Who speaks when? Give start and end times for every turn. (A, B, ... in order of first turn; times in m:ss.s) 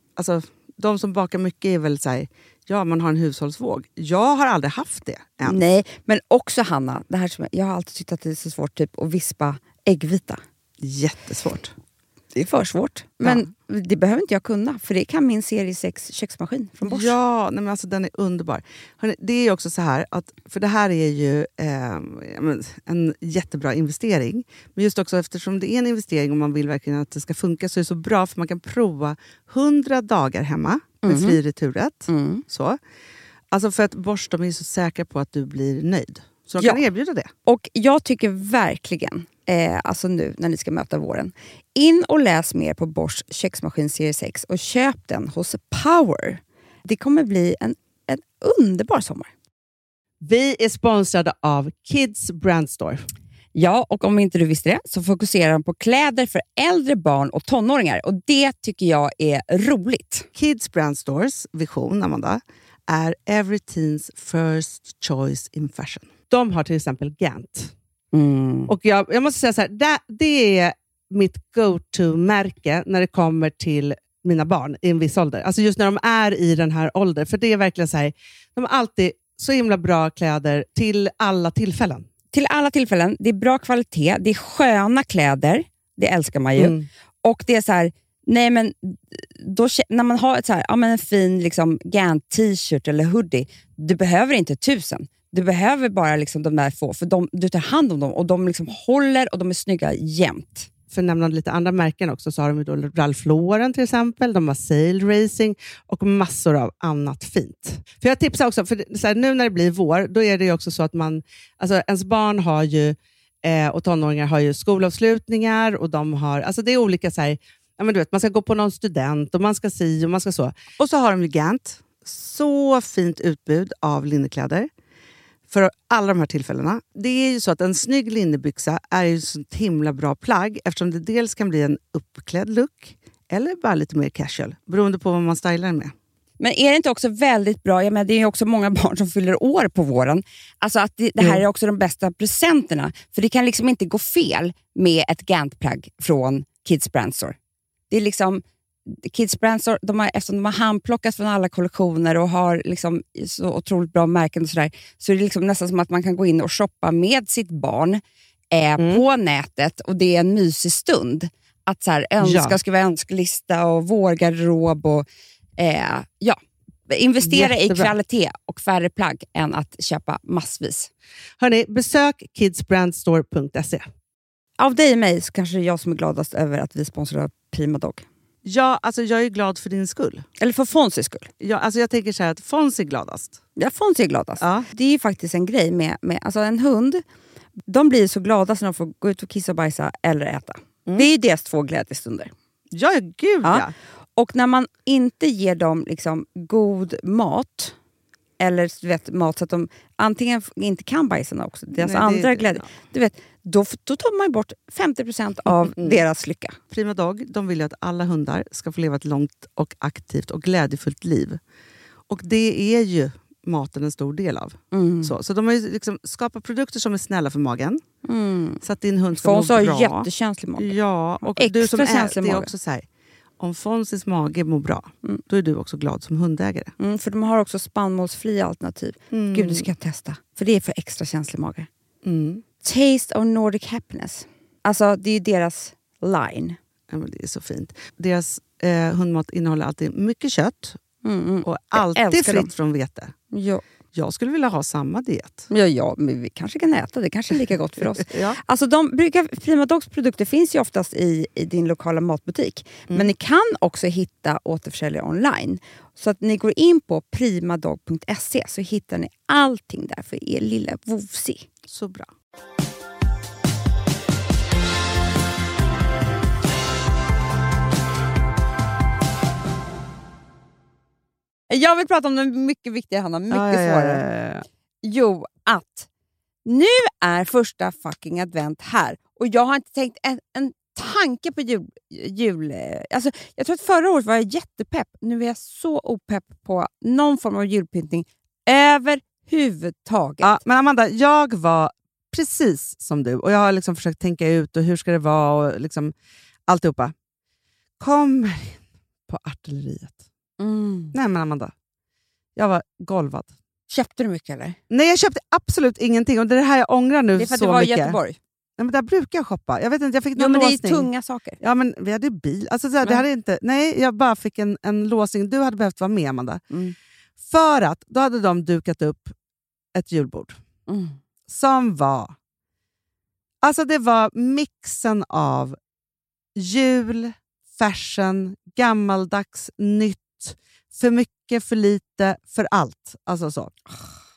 0:00.2-0:05.6 A
0:05.4-0:10.4 B
0:10.8-0:11.7 A
0:12.3-0:17.1 B
0:13.2-0:13.5 A
0:16.8-0:32.8 A
0:31.0-0:31.4 B
0:32.1-0:32.4 B
0:33.5-0:37.3 A
0:36.6-0:36.8 B
0:37.5-0:49.3 B
0:50.2-0:53.1 A
0:53.6-1:00.3 B
1:00.4-1:07.7 A
1:08.1-1:08.7 B
1:08.7-1:22.1 A
1:22.3-1:40.7 B
1:26.6-1:26.9 A
1:40.9-2:04.7 A
2:05.5-2:15.9 A
2:16.4-2:27.4 B
2:27.9-2:45.1 B
2:38.8-2:39.0 A
2:42.2-2:42.6 A
2:45.6-2:50.9 B
2:47.2-2:47.9 A
2:51.4-2:53.9 A
2:54.6-2:58.1 B
2:58.4-3:00.3 A
3:00.4-3:01.3 B
3:01.4-3:03.4 A
3:03.6-3:07.0 B
3:04.4-3:04.7 A
3:07.7-3:12.3 B
3:12.7-3:13.7 A
3:13.4-3:17.8 B
3:18.4-3:26.6 B
3:21.8-3:22.7 A
3:25.7-3:26.0 A
3:26.7-3:31.4 A
3:32.1-3:37.8 A
3:34.7-3:35.2 B
3:38.0-3:38.6 B
3:38.6-3:42.9 A
3:39.1-3:42.5 B
3:43.4-3:46.7 A
3:46.8-3:51.7 B
3:49.1-3:49.7 A
3:52.0-3:52.4 A
3:52.6-3:56.6 B
3:56.9-4:00.8 A
4:01.0-4:02.5 B
4:01.4-4:03.2 A
4:03.3-4:03.6 B
4:03.9-4:05.5 A
4:05.5-4:21.5 B
4:08.0-4:08.4 A
4:21.7-4:22.1 A
4:31.5-4:34.0 B
4:33.3-4:34.4 A
4:34.8-4:35.9 B
4:36.4-4:50.4 B
4:50.2-4:55.9 A
4:56.5-4:57.0 A
4:57.8-5:00.0 A
5:00.4-5:01.0 B
5:00.9-5:01.5 A
5:02.4-5:03.4 A
5:03.7-5:04.6 B
5:04.7-5:08.0 A
5:07.2-5:08.2 B
5:08.6-5:16.4 A
5:10.2-5:11.4 B
5:17.2-5:19.2 A
5:19.7-5:20.4 A
5:20.7-5:21.0 B
5:21.3-5:22.2 A
5:23.4-5:25.6 A
5:26.4-5:33.5 A